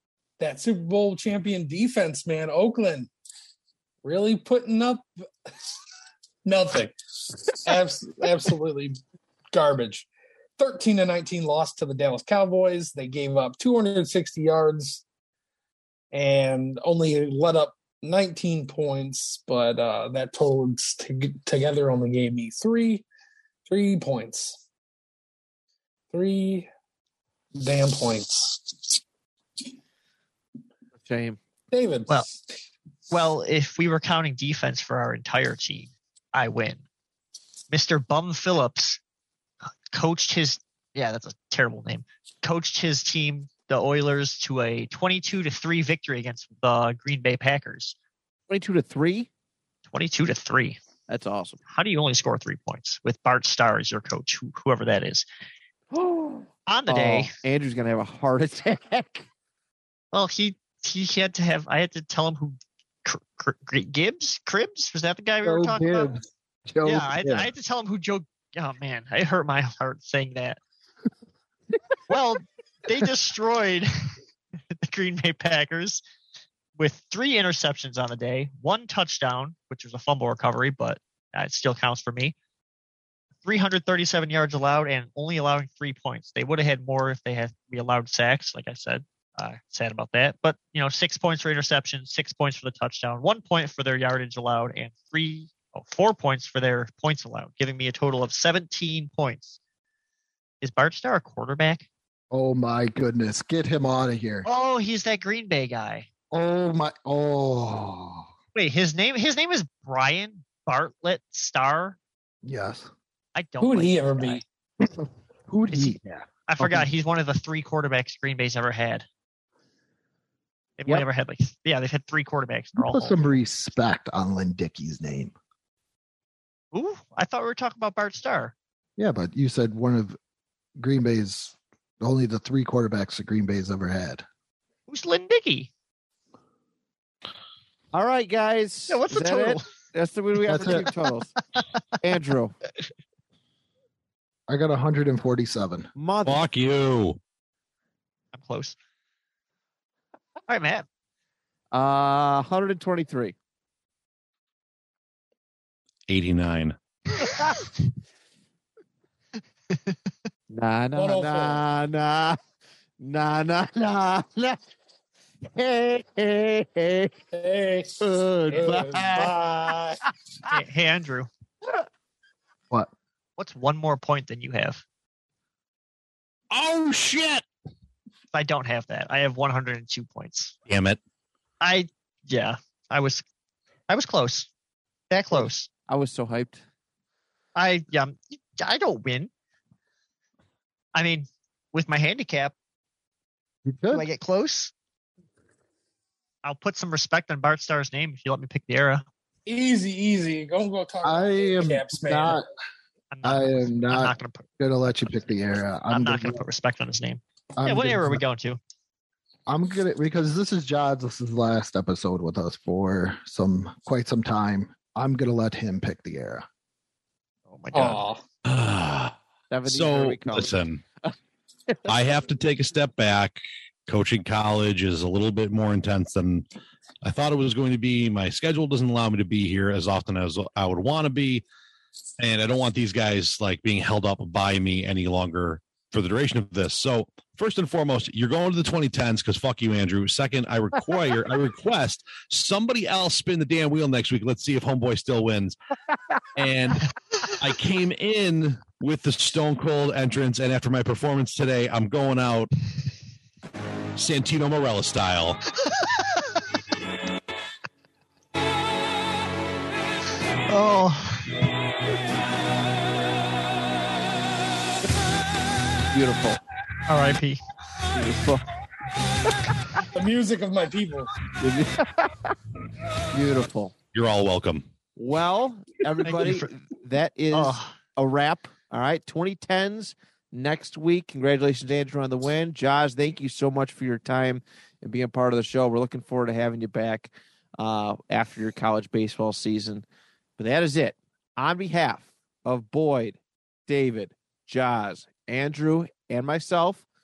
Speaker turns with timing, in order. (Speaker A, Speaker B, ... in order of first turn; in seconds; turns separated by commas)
Speaker A: 0.4-3.1, Speaker A: 4.0-5.7, Speaker A: 6.5-9.0, Speaker A: 9.5-10.1, Speaker A: 10.6-15.0, Speaker A: 16.1-23.0, Speaker A: 23.7-24.6, Speaker A: 26.1-26.7, Speaker A: 27.6-29.0, Speaker B: 30.9-31.4, Speaker A: 31.7-32.4, Speaker C: 33.1-36.8, Speaker C: 37.7-39.0, Speaker C: 39.9-48.0, Speaker B: 48.5-49.3, Speaker C: 49.9-50.8, Speaker B: 51.1-51.6, Speaker C: 51.7-55.3, Speaker B: 55.9-59.3, Speaker C: 56.7-57.3, Speaker C: 60.1-66.1, Speaker D: 65.4-67.5, Speaker C: 66.8-70.6, Speaker C: 72.1-74.2, Speaker C: 74.8-76.0, Speaker C: 76.8-82.3, Speaker C: 83.4-99.6, Speaker C: 100.6-101.9, Speaker D: 102.3-104.5, Speaker C: 104.5-106.1, Speaker D: 106.3-108.3, Speaker C: 108.5-112.0, Speaker D: 112.4-112.9, Speaker C: 113.3-114.4, Speaker A: 113.6-114.4, Speaker D: 114.8-116.2, Speaker C: 115.7-116.0, Speaker C: 116.5-119.0, Speaker B: 116.6-116.8, Speaker C: 120.8-123.2, Speaker D: 122.8-125.3, Speaker C: 126.7-128.5, Speaker D: 129.0-130.2, Speaker D: 130.8-134.2, Speaker C: 134.9-135.7, Speaker B: 137.9-141.3, Speaker C: 138.9-139.7, Speaker D: 140.5-140.8, Speaker C: 140.6-140.9, Speaker B: 142.0-142.6, Speaker D: 144.5-145.9, Speaker B: 146.0-146.4, Speaker E: 146.2-147.2, Speaker C: 148.3-148.8, Speaker C: 150.5-150.9, Speaker B: 151.7-153.3, Speaker E: 156.1-156.8, Speaker B: 160.5-162.4, Speaker A: 161.0-161.6, Speaker B: 163.0-164.6, Speaker B: 165.5-167.1, Speaker A: 167.3-167.9, Speaker B: 168.0-169.3, Speaker A: 168.5-170.0, Speaker C: 170.5-171.3, Speaker C: 173.4-174.8, Speaker E: 176.5-177.4, Speaker C: 178.3-180.6, Speaker E: 180.7-181.0, Speaker C: 181.6-183.2, Speaker C: 183.9-184.5, Speaker C: 185.1-185.7, Speaker B: 185.3-186.6, Speaker C: 187.6-189.3, Speaker C: 190.9-192.6, Speaker D: 193.7-194.1, Speaker C: 193.9-194.7, Speaker C: 196.4-199.1, Speaker A: 199.5-202.4, Speaker D: 201.0-202.5, Speaker C: 203.1-204.5, Speaker D: 203.2-206.4, Speaker C: 205.9-208.6, Speaker D: 207.6-208.2, Speaker D: 209.5-216.4, Speaker C: 217.5-218.1, Speaker A: 217.7-218.2, Speaker E: 218.4-219.2, Speaker B: 219.5-221.1, Speaker E: 219.7-220.8, Speaker E: 221.9-226.4, Speaker E: 227.0-231.4, Speaker E: 232.2-245.6, Speaker E: 246.3-252.5, Speaker E: 254.0-255.4, Speaker C: 255.7-256.0, Speaker C: 260.5-261.4, Speaker B: 265.9-266.4, Speaker C: 266.9-267.4, Speaker B: 267.9-268.5, Speaker A: 269.9-271.1, Speaker B: 271.4-272.3, Speaker B: 273.1-273.7, Speaker E: 273.9-274.7, Speaker B: 275.0-289.9, Speaker C: 276.1-276.5, Speaker C: 277.3-277.8, Speaker B: 290.4-296.8